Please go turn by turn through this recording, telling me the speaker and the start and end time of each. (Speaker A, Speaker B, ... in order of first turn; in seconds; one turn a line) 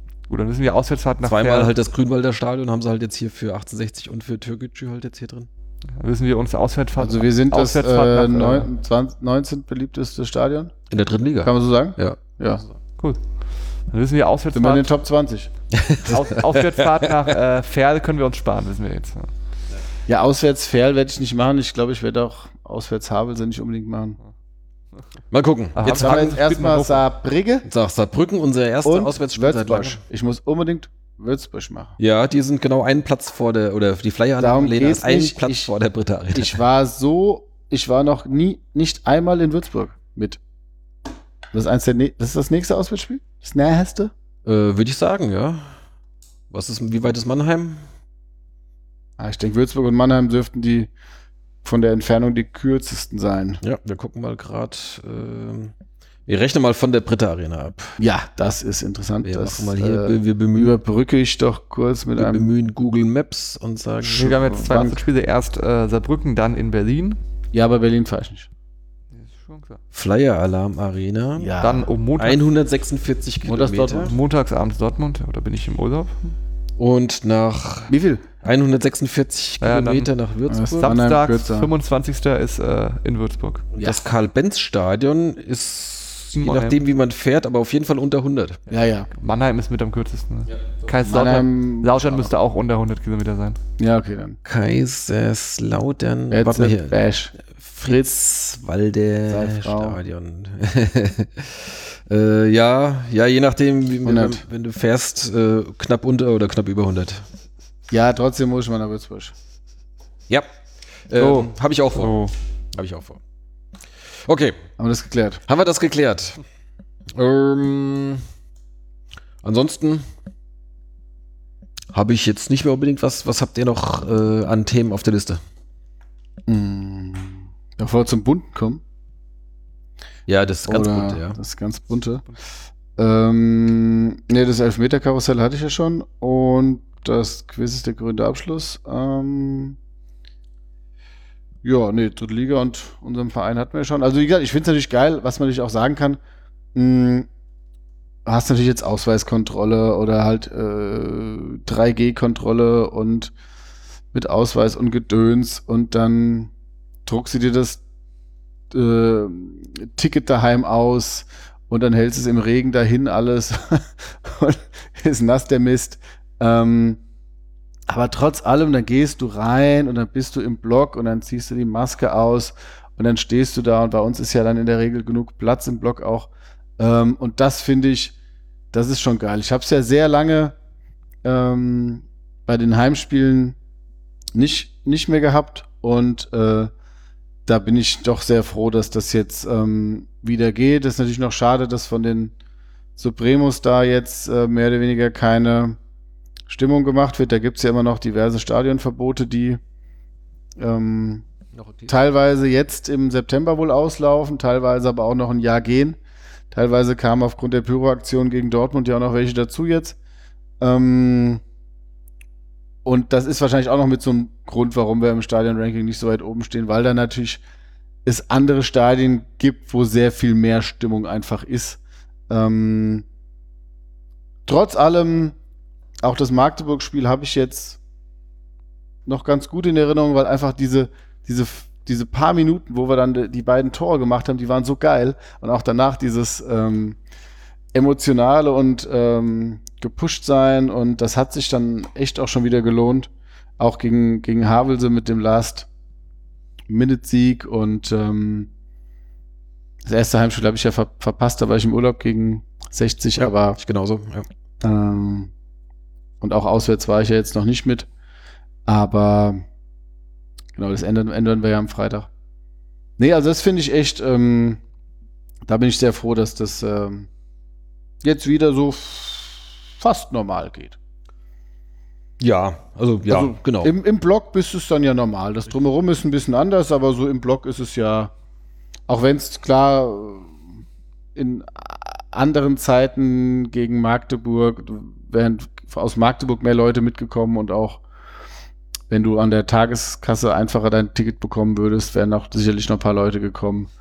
Speaker A: 0.3-1.7
Speaker B: 1.2-5.5
Speaker A: 6.0-8.7
Speaker C: 7.0-10.7
Speaker B: 10.9-12.4
Speaker C: 11.4-12.6
Speaker A: 13.9-14.9
Speaker C: 14.5-15.5
Speaker B: 15.7-17.3
Speaker A: 16.1-19.3
Speaker C: 20.1-24.2
Speaker B: 25.3-26.4
Speaker A: 25.8-27.1
Speaker C: 25.9-27.7
Speaker B: 27.7-30.0
Speaker C: 28.8-32.0
Speaker B: 32.0-36.6
Speaker C: 34.4-35.7
Speaker C: 36.3-40.4
Speaker C: 41.5-44.1
Speaker B: 44.5-45.7
Speaker B: 46.5-47.8
Speaker C: 49.2-50.9
Speaker C: 51.6-53.6
Speaker B: 53.6-55.7
Speaker B: 56.3-58.0
Speaker C: 58.0-62.5
Speaker B: 59.2-60.8
Speaker B: 62.2-64.4
Speaker A: 64.0-67.2
Speaker C: 64.3-65.0
Speaker C: 67.5-68.5
Speaker A: 69.1-69.8
Speaker B: 69.9-71.5
Speaker C: 71.4-71.9
Speaker A: 71.6-72.4
Speaker B: 72.2-74.2
Speaker C: 73.5-74.1
Speaker A: 74.0-76.3
Speaker B: 76.8-81.0
Speaker C: 77.9-78.2
Speaker A: 79.6-80.1
Speaker C: 80.5-81.7
Speaker A: 80.8-83.7
Speaker B: 83.7-88.6
Speaker A: 86.3-86.8
Speaker C: 88.7-89.1
Speaker A: 89.1-93.6
Speaker C: 91.0-92.3
Speaker C: 93.8-94.4
Speaker B: 94.5-107.2
Speaker C: 96.3-97.3
Speaker C: 99.3-100.0
Speaker C: 104.0-104.4
Speaker C: 107.9-109.3
Speaker B: 111.1-112.2
Speaker C: 111.2-111.5
Speaker A: 112.0-112.3
Speaker B: 112.7-113.2
Speaker B: 114.3-114.6
Speaker C: 114.8-115.4
Speaker B: 115.5-116.4
Speaker B: 117.2-118.2
Speaker B: 119.4-120.0
Speaker B: 121.9-125.4
Speaker C: 126.5-128.8
Speaker B: 130.3-131.4
Speaker C: 130.7-132.2
Speaker C: 133.0-139.8
Speaker C: 141.6-146.2
Speaker C: 146.8-147.3
Speaker C: 148.3-153.3
Speaker C: 154.1-156.5
Speaker C: 157.1-157.8
Speaker C: 158.7-167.0
Speaker C: 167.9-178.1
Speaker C: 178.7-180.6
Speaker C: 181.2-183.6
Speaker C: 184.3-186.7
Speaker C: 187.5-192.3
Speaker C: 193.0-195.8
Speaker C: 196.5-199.6
Speaker C: 200.6-201.2
Speaker B: 201.6-201.9
Speaker C: 201.9-206.0
Speaker C: 206.5-210.0
Speaker C: 210.6-211.4
Speaker C: 212.8-217.4
Speaker C: 218.1-223.1
Speaker C: 224.5-225.4
Speaker C: 226.0-227.8
Speaker C: 229.1-237.0
Speaker C: 237.7-245.7
Speaker C: 246.7-248.5
Speaker C: 249.8-253.6
Speaker B: 253.2-254.3
Speaker C: 254.6-255.3
Speaker C: 256.2-257.9
Speaker C: 258.7-259.4
Speaker C: 260.6-262.1
Speaker C: 263.0-264.6
Speaker C: 265.5-267.1
Speaker C: 268.0-270.8
Speaker B: 272.2-273.7
Speaker C: 273.1-278.1
Speaker C: 278.9-280.4
Speaker C: 281.1-287.8
Speaker C: 288.9-293.7